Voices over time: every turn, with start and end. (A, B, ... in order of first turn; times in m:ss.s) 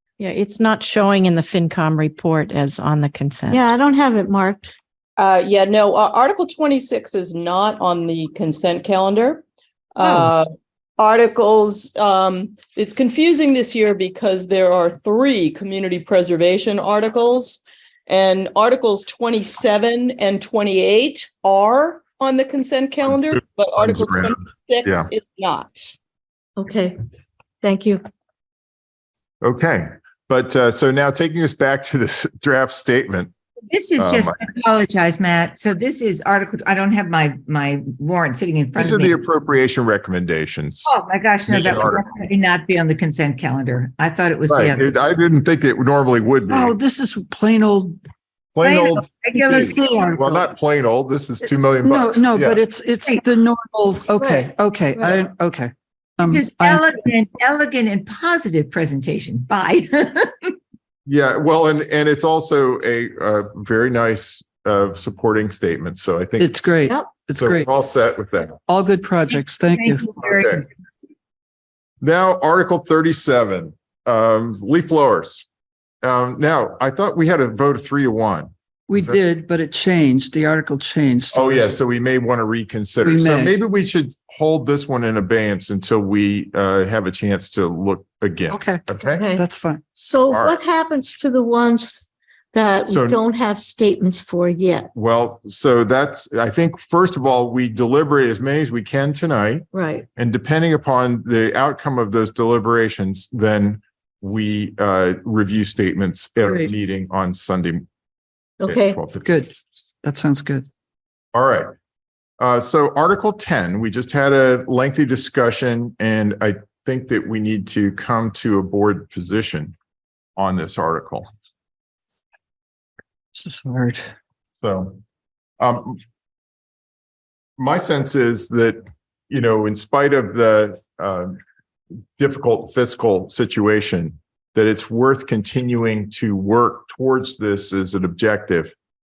0:00.2-0:03.6 A
0:03.5-0:04.7 B
0:05.2-0:09.4 C
0:10.0-0:10.5 C
0:10.0-0:10.3 D
0:11.0-0:25.9 C
0:23.1-0:25.1 E
0:26.6-0:27.0 B
0:27.6-0:28.0 B
0:29.4-0:33.3 E
0:33.7-0:39.2 D
0:34.0-0:34.3 E
0:38.7-0:40.9 E
0:40.8-0:44.9 D
0:41.5-0:42.0 E
0:44.5-0:46.8 E
0:46.5-0:48.0 F
0:48.5-0:52.6 E
0:48.6-0:50.4 D
0:49.4-0:49.7 F
0:51.8-0:56.8 F
0:54.2-0:55.2 B
0:56.2-1:00.5 D
1:01.1-1:06.5 E
1:06.4-1:07.7 F
1:07.4-1:08.6 E
1:08.7-1:10.1 F
1:09.3-1:10.6 D
1:10.2-1:10.6 E
1:12.0-1:15.4 E
1:16.0-1:19.2 E
1:18.9-1:21.7 F
1:21.3-1:29.2 E
1:23.0-1:23.6 F
1:28.5-1:28.8 F
1:29.2-1:29.4 B
1:29.3-1:29.8 F
1:30.0-1:34.9 B
1:30.3-1:30.6 E
1:32.9-1:33.2 E
1:34.9-1:47.8 E
1:39.7-1:40.0 B
1:46.4-1:46.7 F
1:48.6-1:49.0 B
1:48.7-1:49.3 E
1:49.2-1:50.7 F
1:51.3-1:51.7 E
1:52.4-1:59.7 E
2:00.4-2:01.3 E
2:03.3-2:04.0 F
2:04.6-2:05.0 E
2:05.6-2:06.0 E
2:07.6-2:11.4 E
2:12.2-2:18.7 E